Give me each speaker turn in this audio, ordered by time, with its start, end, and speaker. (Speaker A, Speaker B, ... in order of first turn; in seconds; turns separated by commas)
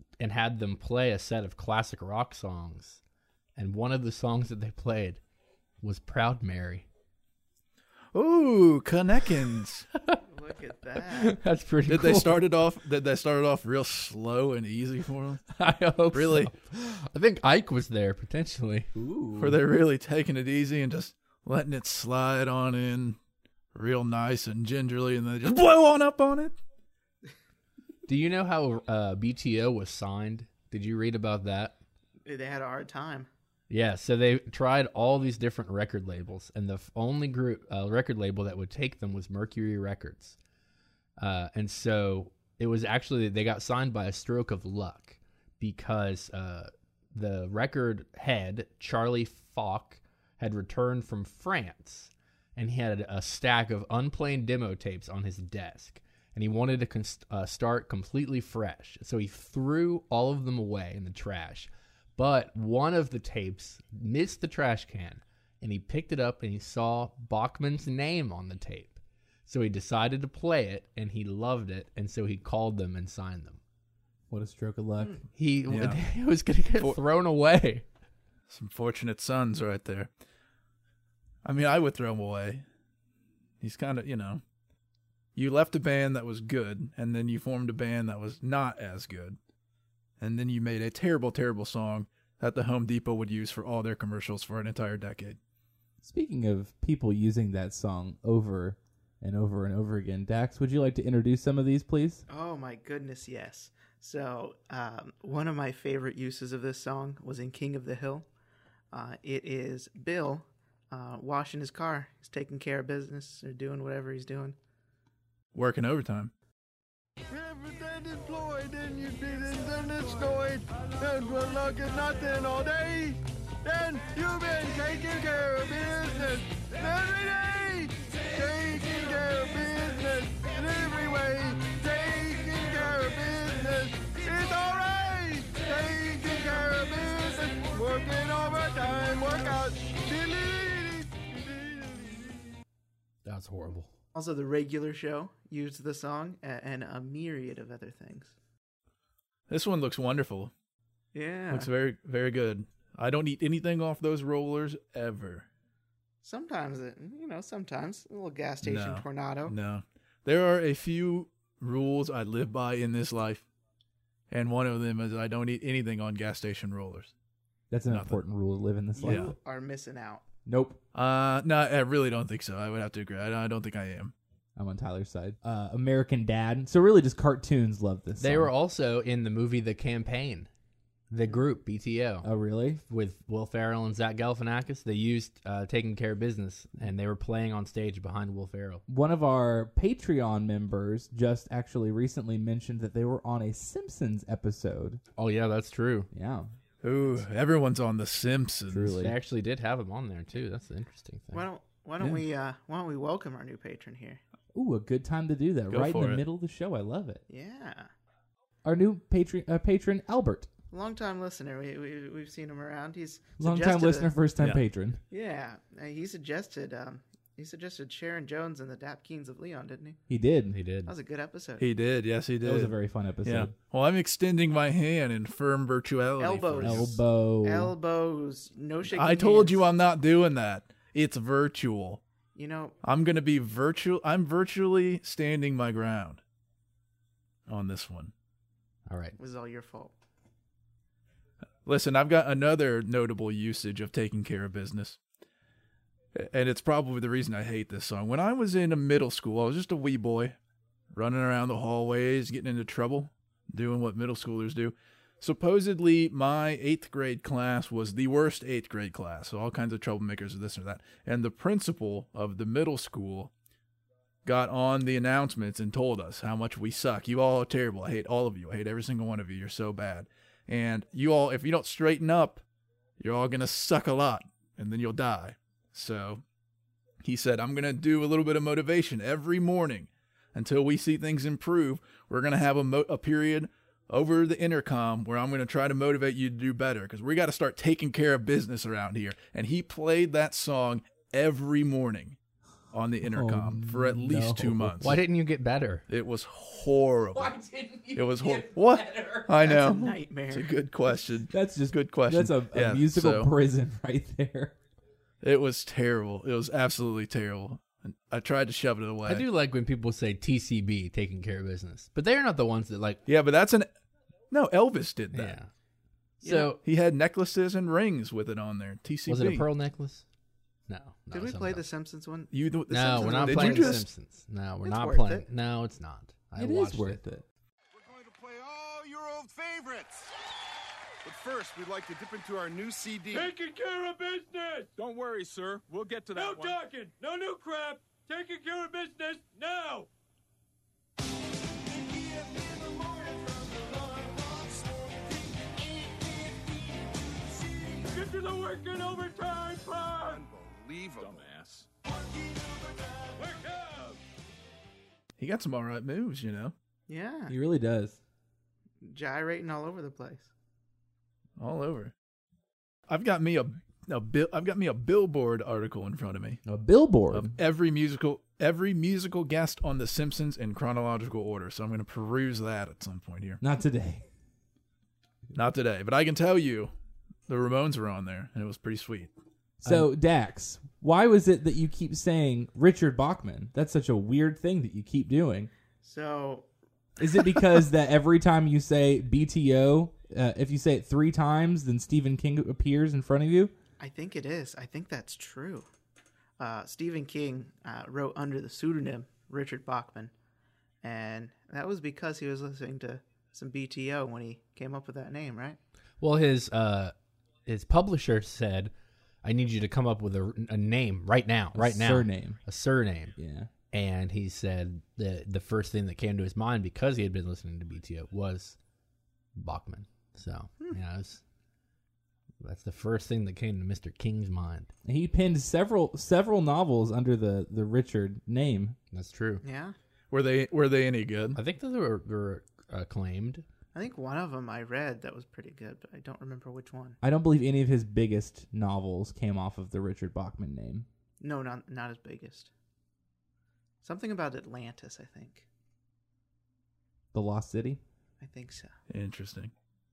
Speaker A: 0.2-3.0, Speaker A: 3.6-5.2, Speaker A: 5.8-6.9, Speaker B: 8.1-9.9, Speaker A: 9.9-10.2, Speaker C: 10.2-11.4, Speaker A: 11.0-12.4, Speaker B: 11.9-15.4, Speaker A: 15.5-18.9, Speaker B: 16.1-16.5, Speaker D: 18.9-19.6, Speaker B: 19.4-23.2, Speaker B: 23.7-26.6, Speaker A: 28.1-31.8, Speaker C: 32.2-33.3, Speaker A: 33.7-40.4, Speaker A: 41.2-73.6, Speaker D: 74.3-75.2, Speaker A: 75.3-77.9, Speaker B: 75.7-76.0, Speaker B: 78.5-80.1, Speaker B: 81.4-82.6, Speaker B: 83.6-84.4, Speaker B: 85.3-89.4, Speaker B: 90.2-95.4, Speaker D: 96.0-102.2, Speaker C: 102.3-108.3, Speaker C: 108.9-114.6, Speaker B: 115.5-116.3, Speaker E: 117.3-142.5, Speaker A: 143.2-143.9, Speaker C: 144.1-148.3, Speaker B: 149.5-150.5, Speaker C: 151.1-151.7, Speaker B: 151.5-155.5, Speaker C: 156.2-159.6, Speaker B: 158.6-163.5, Speaker B: 164.3-167.1, Speaker D: 167.7-169.3, Speaker B: 167.9-168.2, Speaker C: 169.0-170.2, Speaker B: 169.0-169.3, Speaker D: 170.5-170.8, Speaker B: 170.9-174.1, Speaker D: 174.6-178.5, Speaker A: 178.2-180.5, Speaker A: 181.1-182.3, Speaker D: 182.2-182.8, Speaker A: 182.9-188.8, Speaker D: 188.9-195.0, Speaker A: 195.2-196.1, Speaker D: 196.1-196.5, Speaker B: 196.8-199.0, Speaker D: 198.7-199.2, Speaker A: 199.0-201.5, Speaker C: 201.3-204.2, Speaker D: 204.5-207.2, Speaker B: 205.7-206.2, Speaker C: 207.3-207.9, Speaker D: 208.6-210.5, Speaker C: 210.7-214.1, Speaker D: 213.4-215.0, Speaker C: 215.1-220.0, Speaker D: 220.1-220.6, Speaker A: 220.5-220.9, Speaker C: 220.9-221.7, Speaker B: 221.6-227.0, Speaker D: 222.4-223.5, Speaker C: 226.2-229.7, Speaker D: 226.6-227.7, Speaker B: 228.9-232.0, Speaker C: 232.3-232.8, Speaker B: 232.8-236.2, Speaker B: 237.5-238.1, Speaker A: 238.9-239.2, Speaker C: 239.2-239.9, Speaker B: 241.7-245.0, Speaker B: 246.1-250.4, Speaker B: 250.9-263.3, Speaker B: 264.2-272.4, Speaker B: 273.0-276.2, Speaker B: 277.0-292.2, Speaker B: 292.7-295.0, Speaker D: 293.0-295.0, Speaker A: 294.8-295.9, Speaker B: 295.9-297.4, Speaker D: 297.1-299.5, Speaker B: 297.9-303.3, Speaker C: 299.4-300.6, Speaker D: 301.3-304.6, Speaker B: 305.2-309.2, Speaker A: 309.1-313.0, Speaker B: 313.1-313.7, Speaker B: 314.3-315.4, Speaker A: 315.1-315.5, Speaker A: 316.2-316.6, Speaker C: 316.2-316.6, Speaker B: 316.6-319.5, Speaker A: 319.1-320.1, Speaker A: 320.7-321.6, Speaker C: 321.1-323.8, Speaker B: 322.3-323.9, Speaker A: 322.7-327.0, Speaker C: 324.6-325.3, Speaker D: 326.4-327.2, Speaker F: 327.7-330.1, Speaker F: 331.0-333.4, Speaker E: 333.1-334.5, Speaker F: 334.8-336.6, Speaker E: 336.2-339.4, Speaker E: 341.7-346.6, Speaker E: 347.4-350.2, Speaker F: 350.0-351.7, Speaker E: 351.9-353.9, Speaker B: 355.2-356.5, Speaker C: 356.9-357.4, Speaker D: 357.3-358.0, Speaker C: 358.8-360.3, Speaker B: 361.4-361.9, Speaker B: 362.9-366.4, Speaker D: 366.5-367.4, Speaker B: 367.1-373.4, Speaker D: 373.4-374.1, Speaker B: 375.3-376.7, Speaker B: 377.3-379.1, Speaker D: 379.6-385.5, Speaker C: 385.8-386.5, Speaker D: 387.0-393.5, Speaker C: 393.8-395.7, Speaker C: 396.4-400.1, Speaker C: 400.8-405.6, Speaker A: 406.0-406.9, Speaker A: 407.5-408.7, Speaker A: 409.2-413.1, Speaker D: 411.5-412.4, Speaker D: 413.1-413.5, Speaker A: 413.7-418.6, Speaker A: 419.4-421.2, Speaker A: 422.4-424.7, Speaker D: 424.9-428.8, Speaker A: 428.9-429.4, Speaker C: 429.4-429.8, Speaker B: 430.1-431.4, Speaker A: 431.4-433.4, Speaker C: 433.7-437.0, Speaker D: 437.0-440.9, Speaker C: 441.2-442.5, Speaker C: 443.8-445.5, Speaker D: 447.1-447.8, Speaker C: 448.2-448.7, Speaker B: 448.9-449.5